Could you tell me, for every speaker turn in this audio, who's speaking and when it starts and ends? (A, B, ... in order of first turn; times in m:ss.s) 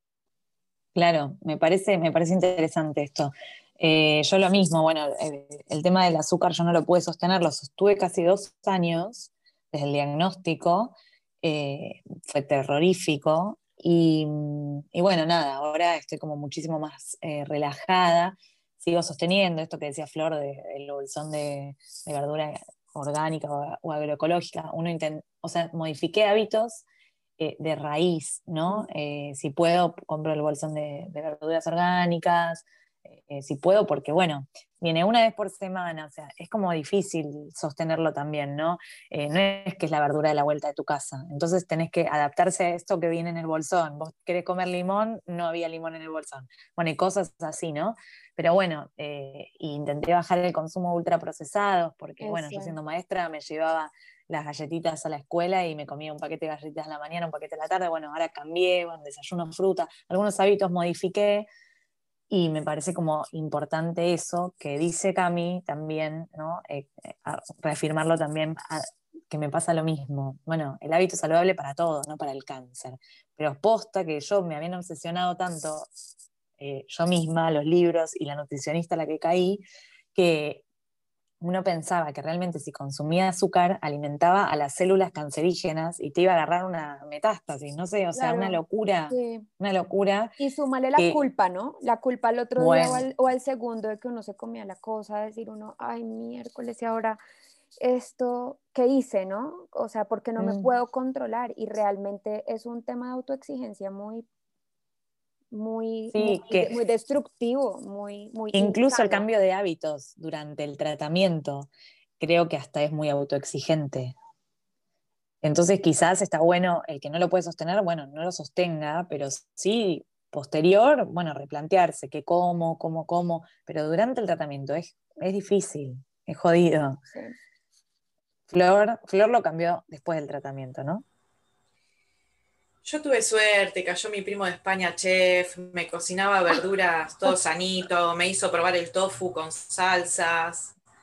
0:00.9-0:26.8 A
0:27.4-1:01.5 A
0:52.2-0:52.8 B
1:02.3-1:15.9 A
1:16.6-1:19.6 A
1:20.1-1:20.6 A
1:21.4-1:30.4 A
1:28.1-1:29.4 B
1:30.4-1:37.2 B
1:31.0-1:31.2 A
1:32.6-1:33.0 A
1:37.8-1:44.2 B
1:40.4-1:40.7 A
1:45.5-1:49.2 B
1:46.1-1:46.8 A
1:48.5-1:54.1 A
1:55.4-2:07.0 A
2:08.5-2:11.0 A
2:12.8-2:20.7 C